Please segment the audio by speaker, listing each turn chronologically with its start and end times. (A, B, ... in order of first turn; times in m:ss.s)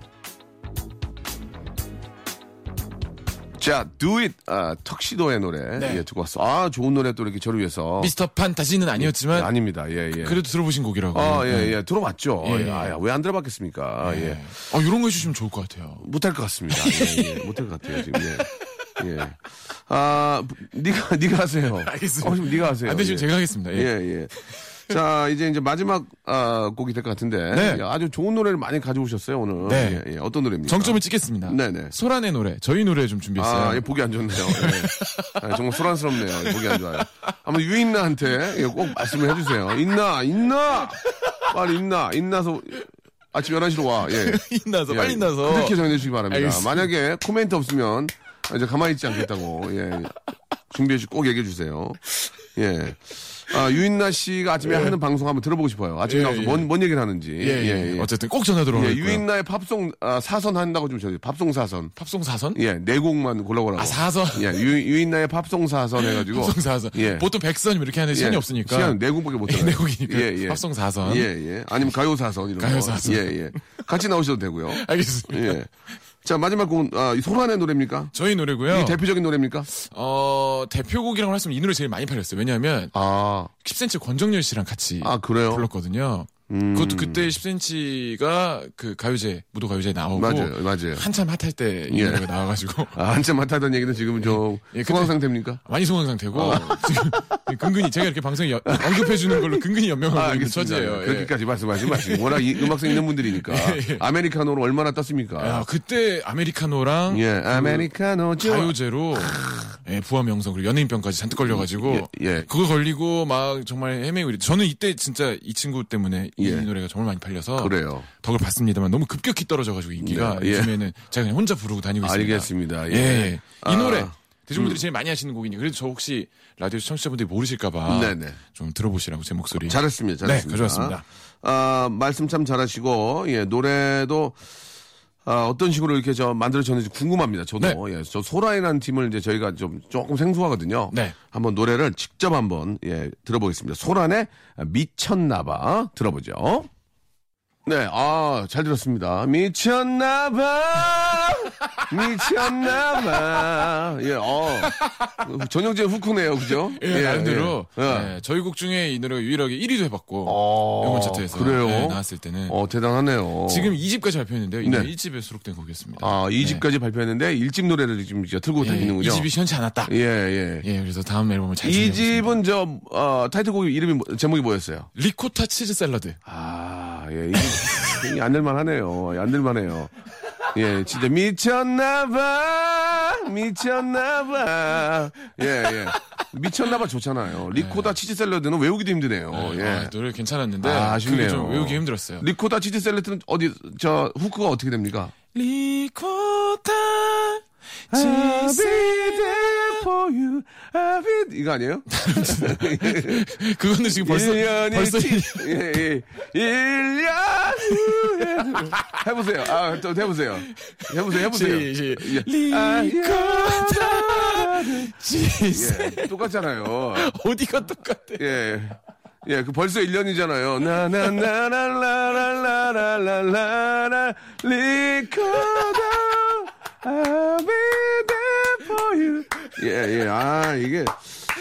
0:03.6-0:08.1 A
0:05.8-0:06.0 B
0:08.0-0:09.5 B
0:09.0-0:10.4 A
0:10.2-0:11.8 B
0:11.1-0:14.4 A
0:12.4-0:13.0 B
0:14.0-0:16.0 B
0:16.0-0:31.9 A
0:16.7-0:18.9 B
0:21.8-0:24.9 B
0:27.5-0:27.8 B
0:29.6-0:30.0 B
0:30.6-0:37.1 B
0:33.4-0:50.1 A
0:38.7-0:39.4 B
0:41.0-0:41.5 B
0:44.0-0:46.9 B
0:50.7-0:52.0 A
0:52.5-0:58.1 A
0:54.6-0:55.0 B
0:56.0-0:56.7 B
0:57.4-0:59.2 B
0:58.7-1:01.9 A
1:02.0-1:02.6 B
1:02.5-1:07.2 A
1:03.8-1:04.7 B
1:06.0-1:11.3 B
1:08.1-1:15.7 A
1:12.6-1:13.6 B
1:14.7-1:15.6 B
1:16.2-1:18.1 A
1:18.1-1:19.0 B
1:18.7-1:19.7 A
1:19.7-1:22.9 B
1:22.9-1:23.5 A
1:23.5-1:33.0 B
1:25.0-1:25.7 A
1:26.5-1:27.3 A
1:30.1-1:31.0 A
1:31.9-1:32.2 A
1:32.9-1:35.6 A
1:34.2-1:44.0 B
1:36.3-1:37.7 A
1:38.6-1:45.6 A
1:45.4-1:47.9 B
1:47.1-1:49.7 A
1:48.4-2:11.0 B
1:51.5-1:52.5 A
1:56.4-1:56.7 A
1:57.6-1:58.1 A
2:00.0-2:00.7 A
2:02.0-2:04.8 A
2:07.9-2:08.4 A
2:09.6-2:14.4 A
2:15.2-2:26.7 A
2:20.9-2:21.2 B
2:27.6-2:38.1 A
2:32.0-2:33.6 B
2:34.6-2:35.3 B
2:36.5-2:42.6 B
2:40.2-2:43.7 A
2:43.5-2:46.6 B
2:44.6-2:44.9 A
2:46.0-2:49.3 A
2:48.6-2:49.9 B
2:49.8-2:50.6 A
2:50.6-2:52.4 B
2:51.6-2:54.9 A
2:54.9-2:56.2 B
2:56.2-2:59.9 A
2:57.3-2:58.1 B
3:00.5-3:09.9 A
3:05.6-3:05.9 B
3:07.5-3:08.0 B
3:09.3-3:12.2 B
3:10.6-3:15.1 A
3:15.3-3:19.8 B
3:17.9-3:23.2 A
3:21.9-3:25.8 B
3:24.0-3:34.9 A
3:27.7-3:29.0 B
3:30.5-3:36.3 B
3:35.5-3:37.1 A
3:36.9-3:38.3 B
3:38.2-3:51.0 A
3:41.0-3:41.2 B
3:45.5-3:45.8 B